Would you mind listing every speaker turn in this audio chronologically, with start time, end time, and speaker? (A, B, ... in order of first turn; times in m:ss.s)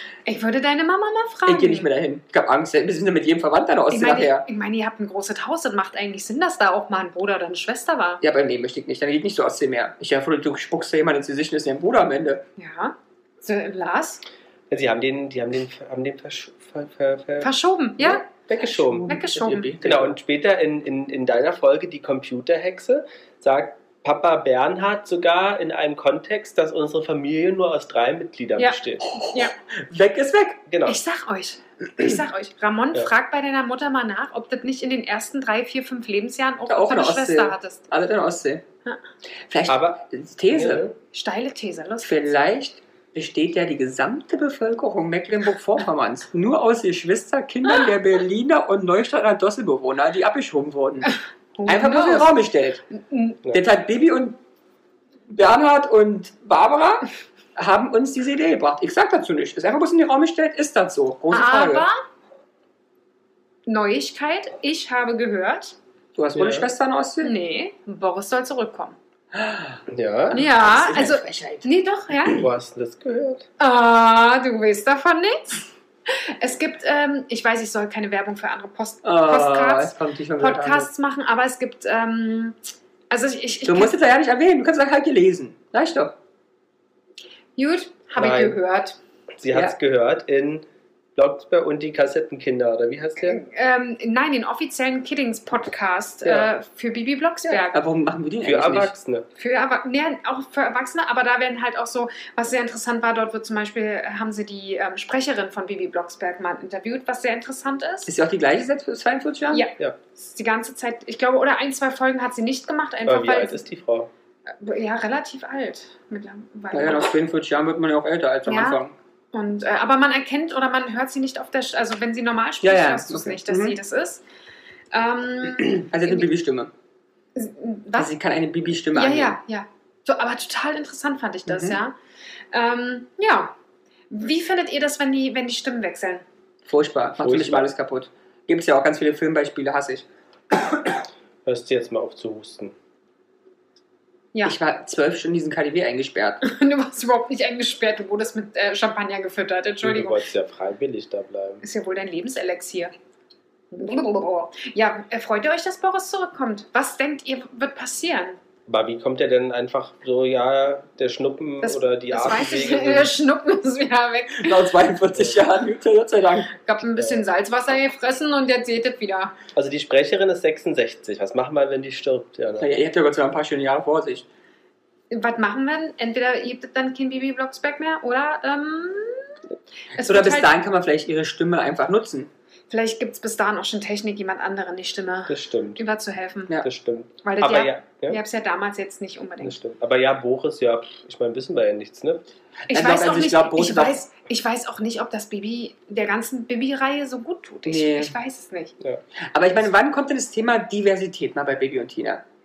0:00.3-0:01.9 A
0:01.5-0:04.4 B
0:03.9-0:08.2 A
0:08.2-0:12.4 B
0:12.6-0:14.2 A
0:14.7-0:19.1 C
0:17.4-0:18.2 A
0:18.7-0:20.2 B
0:19.1-0:19.7 A
0:19.8-0:29.1 C
0:28.6-0:29.6 A
0:29.1-0:30.6 B
0:30.7-0:31.0 C
0:30.8-0:37.8 A
0:36.7-0:38.6 B
0:39.5-0:40.9 B
0:39.7-0:41.0 C
0:41.1-0:42.3 A
0:42.0-0:51.1 B
0:51.6-0:52.3 A
0:51.7-0:52.8 B
0:52.9-0:53.4 A
0:53.5-0:54.4 B
0:55.3-1:01.9 B
1:01.3-1:02.0 A
1:03.7-1:05.8 A
1:06.2-1:07.3 B
1:06.4-1:06.7 C
1:07.2-1:09.0 A
1:09.3-1:11.7 B
1:09.9-1:10.4 C
1:10.3-1:12.4 A
1:12.4-1:13.5 C
1:13.6-1:22.6 A
1:19.0-1:20.9 B
1:23.1-1:23.9 A
1:23.7-1:26.2 B
1:27.6-1:29.0 A
1:28.2-1:28.6 C
1:29.4-1:33.4 C
1:33.3-1:37.8 A
1:36.2-1:36.5 C
1:37.5-1:38.9 B
1:38.4-1:39.3 C
1:39.4-1:48.1 A
1:48.1-1:49.7 B
1:49.5-1:53.6 A
1:53.1-1:54.1 C
1:54.6-1:57.2 A
1:56.7-1:58.9 B
1:58.5-1:58.8 A
1:59.3-2:04.2 A
2:02.6-2:03.8 B
2:04.9-2:06.3 A
2:05.7-2:06.7 B
2:07.4-2:08.1 A
2:08.0-2:09.4 B
2:08.9-2:12.0 A
2:11.5-2:11.8 B
2:12.5-2:13.5 A
2:14.1-2:16.2 A
2:16.7-2:20.1 B
2:17.2-2:17.7 C
2:21.4-2:22.7 C
2:24.4-2:26.4 B
2:26.4-2:30.2 A
2:29.8-2:31.6 C
2:31.6-2:32.9 A
2:33.7-2:38.4 A
2:38.7-2:43.2 C
2:41.6-2:44.7 A
2:44.4-2:46.5 B
2:46.6-2:49.4 A
2:47.0-2:47.2 C
2:49.6-2:52.7 C
2:52.6-2:54.3 B
2:55.1-2:59.4 A
3:00.0-3:00.5 A
3:00.0-3:02.3 B
3:02.7-3:06.6 A
3:05.3-3:05.8 C
3:06.6-3:08.2 C
3:07.2-3:09.6 A
3:09.4-3:12.2 C
3:12.7-3:14.0 B
3:12.7-3:18.7 A
3:17.7-3:18.1 B
3:19.3-3:22.2 B